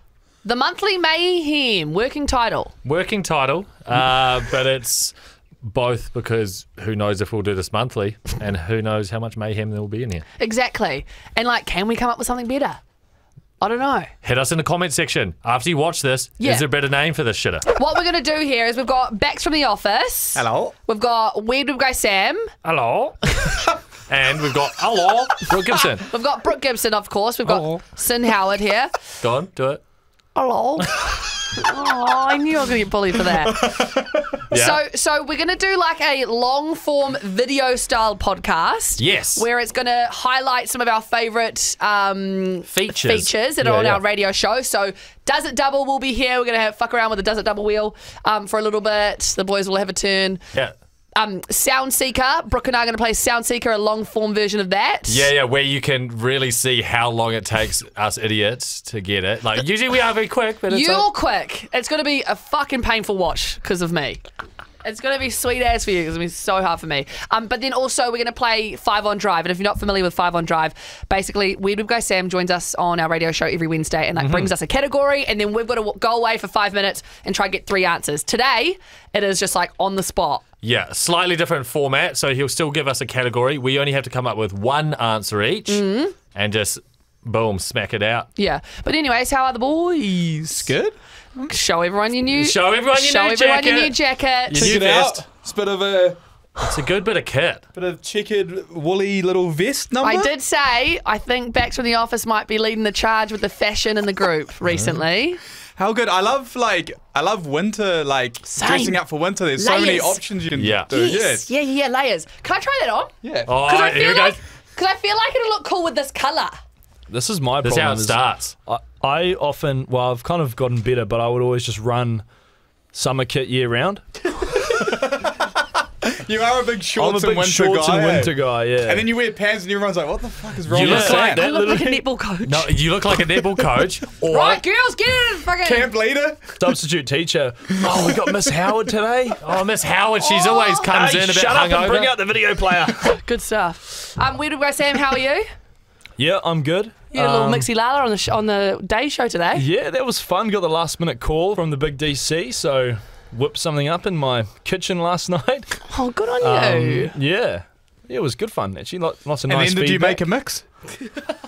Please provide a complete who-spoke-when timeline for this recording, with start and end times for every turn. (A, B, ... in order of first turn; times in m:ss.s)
0:00.4-0:02.7 A
0:02.8-0:10.2 B
0:10.4-0:12.8 A
0:13.6-0:14.1 A
0:14.2-0:17.7 B
0:16.4-0:16.6 A
0:17.7-0:22.5 A
0:20.3-0:20.7 C
0:22.6-0:23.4 B
0:24.1-0:26.0 B
0:26.1-0:28.9 A
0:29.2-0:29.8 B
0:30.3-0:33.8 A
0:33.5-0:34.4 C
0:34.5-0:34.8 B
0:34.5-0:50.4 A
0:39.0-0:39.4 B
0:42.7-0:44.0 B
0:51.2-0:55.3 A
0:55.1-1:01.0 B
1:00.7-1:04.2 A
1:04.8-1:20.4 A
1:14.2-1:14.5 B
1:20.6-1:28.3 B
1:25.7-1:26.1 A
1:28.4-1:30.7 A
1:30.4-1:31.5 C
1:31.5-1:34.7 A
1:32.3-1:34.0 B
1:34.5-1:35.2 B
1:34.5-1:36.2 C
1:36.6-1:37.6 B
1:37.7-1:40.3 C
1:40.0-1:45.4 A
1:44.7-1:45.0 B
1:45.8-1:51.5 C
1:48.4-1:49.0 A
1:49.6-1:50.3 A
1:50.6-1:50.9 B
1:50.9-1:53.1 A
1:53.2-1:53.5 C
1:53.5-1:54.4 B
1:53.6-1:56.6 A
1:57.1-2:02.3 D
1:57.6-1:58.6 B
2:02.9-2:04.4 D
2:04.7-2:05.5 C
2:06.0-2:11.4 C
2:07.0-2:09.1 D
2:10.7-2:11.4 B
2:10.7-2:12.0 D
2:11.0-2:12.8 A
2:12.4-2:14.6 B
2:14.3-2:15.9 A
2:15.6-2:16.8 C
2:16.6-2:19.4 D
2:17.8-2:18.3 C
2:19.4-2:22.2 B
2:20.2-2:20.9 A
2:20.9-2:23.2 D
2:23.0-2:25.5 A
2:26.2-2:27.6 D
2:27.1-2:29.6 A
2:29.6-2:35.8 D
2:35.9-2:37.2 A
2:36.4-2:40.2 D
2:39.4-2:40.6 C